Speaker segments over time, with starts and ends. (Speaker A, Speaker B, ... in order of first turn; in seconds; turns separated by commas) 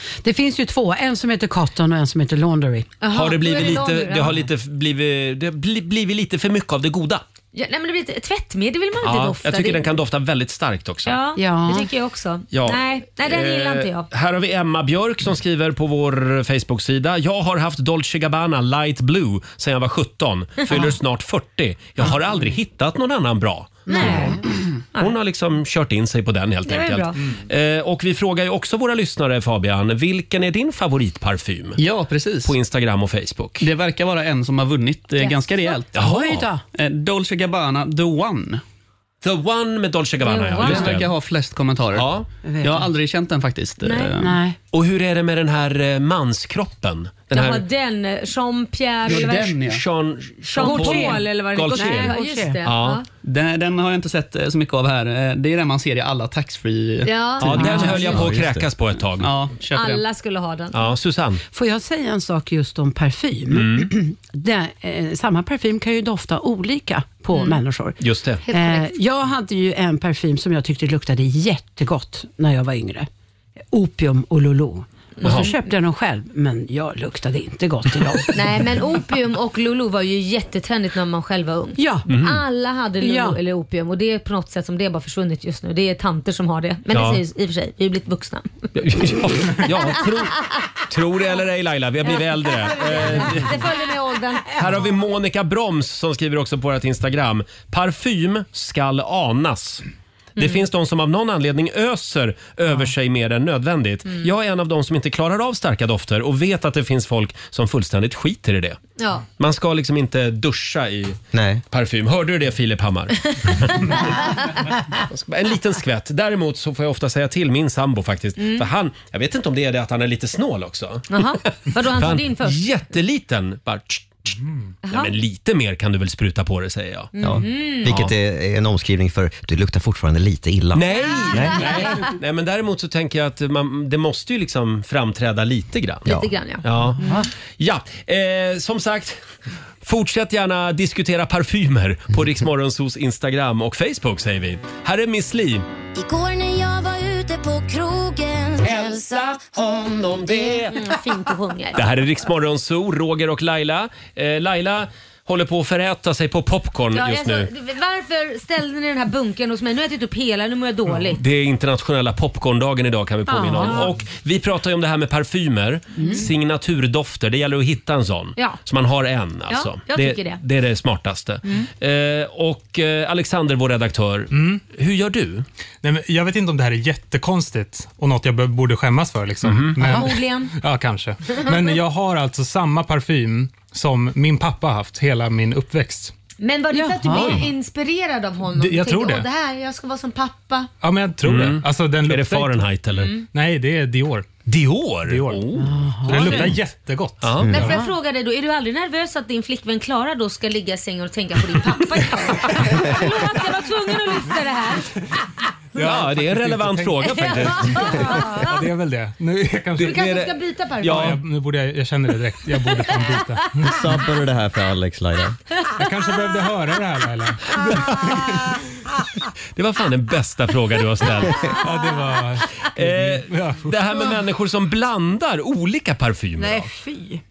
Speaker A: 0.2-2.9, Speaker B: 3.0-4.3, Speaker C: 3.1-7.2, Speaker B: 7.5-9.8, Speaker C: 9.0-11.2, Speaker B: 11.1-14.1, Speaker A: 11.4-11.9, Speaker C: 12.5-24.4, Speaker A: 23.9-24.4, Speaker B: 23.9-24.4, Speaker C: 25.0-31.8, Speaker B: 26.6-27.2, Speaker D: 31.8-32.5, Speaker C: 32.4-33.6, Speaker D: 33.6-36.0, Speaker B: 35.2-35.8, Speaker C: 35.9-36.5, Speaker A: 36.0-36.6, Speaker D: 36.7-38.6, Speaker C: 39.2-41.1, Speaker B: 40.2-41.0, Speaker D: 40.6-44.4, Speaker C: 41.9-42.3, Speaker A: 42.4-42.9, Speaker B: 43.8-44.1, Speaker A: 44.2-44.5, Speaker C: 44.7-47.6, Speaker B: 47.3-49.5, Speaker D: 49.0-49.8, Speaker C: 49.6-53.0, Speaker B: 50.5-53.0, Speaker A: 50.6-52.6, Speaker D: 53.2-58.1, Speaker B: 57.0-58.2, Speaker C: 57.4-59.3, Speaker A: 57.6-58.0, Speaker E: 58.0-58.7, Speaker D: 59.2-60.0, Speaker B: 59.7-60.8, Speaker C: 60.7-61.4, Speaker A: 61.5-73.1, Speaker C: 63.5-63.9, Speaker B: 67.3-67.6, Speaker C: 68.0-68.4, Speaker B: 68.5-68.9, Speaker A: 73.7-78.6, Speaker B: 75.2-75.5, Speaker C: 75.2-75.5, Speaker B: 78.3-88.7, Speaker A: 81.8-82.0, Speaker C: 82.1-82.4, Speaker A: 83.0-83.4, Speaker C: 86.9-87.2, Speaker C: 88.8-93.6, Speaker B: 89.5-90.5, Speaker B: 92.0-94.7, Speaker C: 94.5-99.8, Speaker C: 100.4-108.8, Speaker B: 100.4-100.6, Speaker B: 109.0-109.2, Speaker C: 109.4-111.2, Speaker E: 111.3-111.6, Speaker C: 111.7-114.3, Speaker B: 113.9-114.3, Speaker C: 114.9-124.4, Speaker B: 118.4-118.7, Speaker B: 121.1-122.6, Speaker B: 124.8-125.1, Speaker C: 124.9-127.1, Speaker B: 127.1-127.9, Speaker E: 127.2-131.8, Speaker C: 127.8-128.1, Speaker C: 130.7-137.0, Speaker B: 131.0-132.0, Speaker B: 136.1-137.2, Speaker A: 137.0-137.3, Speaker C: 137.6-139.2, Speaker C: 139.8-145.7, Speaker F: 145.9-149.5, Speaker C: 148.6-150.8, Speaker B: 150.7-151.8, Speaker C: 151.7-157.5, Speaker B: 156.9-161.2, Speaker C: 160.9-175.4, Speaker A: 163.3-163.9, Speaker B: 163.6-163.9, Speaker A: 166.0-166.2, Speaker B: 169.5-170.4, Speaker G: 174.3-174.6, Speaker G: 175.8-186.1, Speaker C: 179.4-179.9, Speaker B: 179.8-180.5, Speaker B: 186.4-190.7, Speaker A: 186.7-187.5, Speaker G: 188.5-189.3, Speaker G: 190.8-194.3, Speaker C: 191.2-193.1, Speaker B: 192.9-193.2, Speaker C: 194.4-196.5, Speaker G: 195.1-195.5, Speaker A: 195.6-196.5, Speaker G: 196.0-197.4, Speaker C: 197.2-197.5, Speaker E: 197.4-197.7, Speaker B: 197.5-204.9, Speaker A: 197.5-197.9, Speaker G: 205.7-210.1, Speaker C: 205.8-208.1, Speaker B: 207.0-208.5, Speaker B: 209.8-211.1, Speaker C: 209.8-211.2, Speaker G: 210.8-213.9, Speaker E: 213.6-215.4, Speaker G: 215.7-218.4, Speaker C: 217.7-218.1, Speaker C: 219.5-221.6, Speaker G: 221.5-224.2, Speaker C: 222.5-226.7, Speaker A: 226.4-227.2